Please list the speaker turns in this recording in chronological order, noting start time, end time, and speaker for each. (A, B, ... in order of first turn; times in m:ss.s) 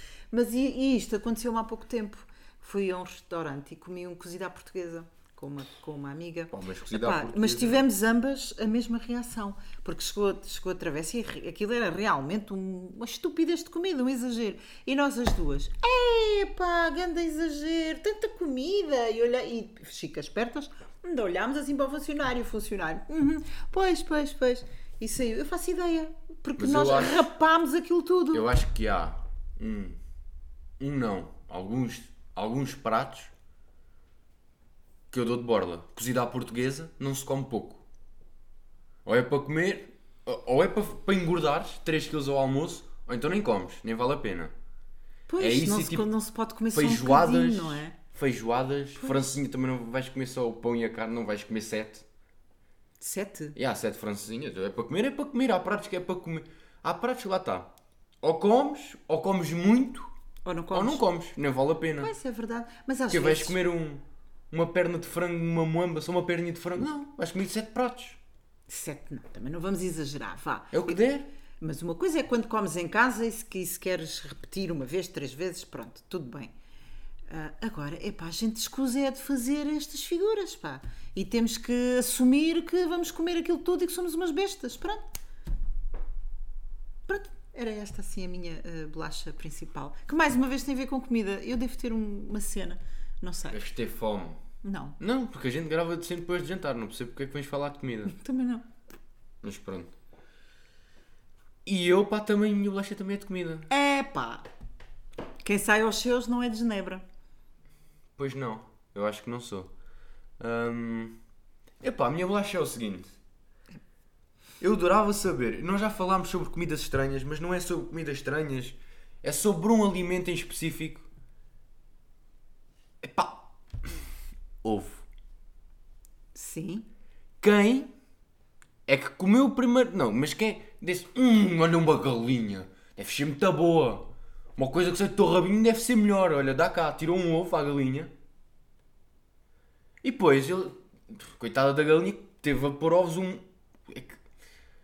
0:00.3-0:28.4 A
0:06.5-0:07.9 B
0:26.6-0:27.3 B
0:28.3-0:30.0 B
0:30.8-0:33.3 B
0:35.1-0:37.8 B
0:39.0-0:44.5 B
0:45.3-0:48.0 A
0:45.4-0:46.1 B
0:46.7-0:52.1 B
0:49.0-0:49.2 A
0:53.0-0:53.6 A
0:53.6-1:00.1 B
1:00.4-1:01.0 A
1:00.7-1:02.1 B
1:02.0-1:03.6 A
1:03.1-1:08.2 B
1:08.7-1:11.0 A
1:10.7-1:11.3 B
1:11.6-1:16.5 A
1:17.3-1:25.1 A
1:27.1-1:33.6 A
1:33.5-1:34.4 B
1:34.6-1:35.0 A
1:35.0-1:38.2 B
1:38.1-1:38.6 A
1:39.4-1:39.9 B
1:41.6-1:43.7 B
1:43.7-1:44.5 A
1:45.4-1:47.0 A
1:48.2-1:49.7 B
1:50.4-1:51.2 B
1:51.8-1:53.2 B
1:54.6-2:01.1 B
2:03.0-2:04.0 B
2:04.6-2:05.0 B
2:06.4-2:06.9 A
2:07.4-2:07.9 B
2:08.9-2:18.1 B
2:20.0-2:24.2 B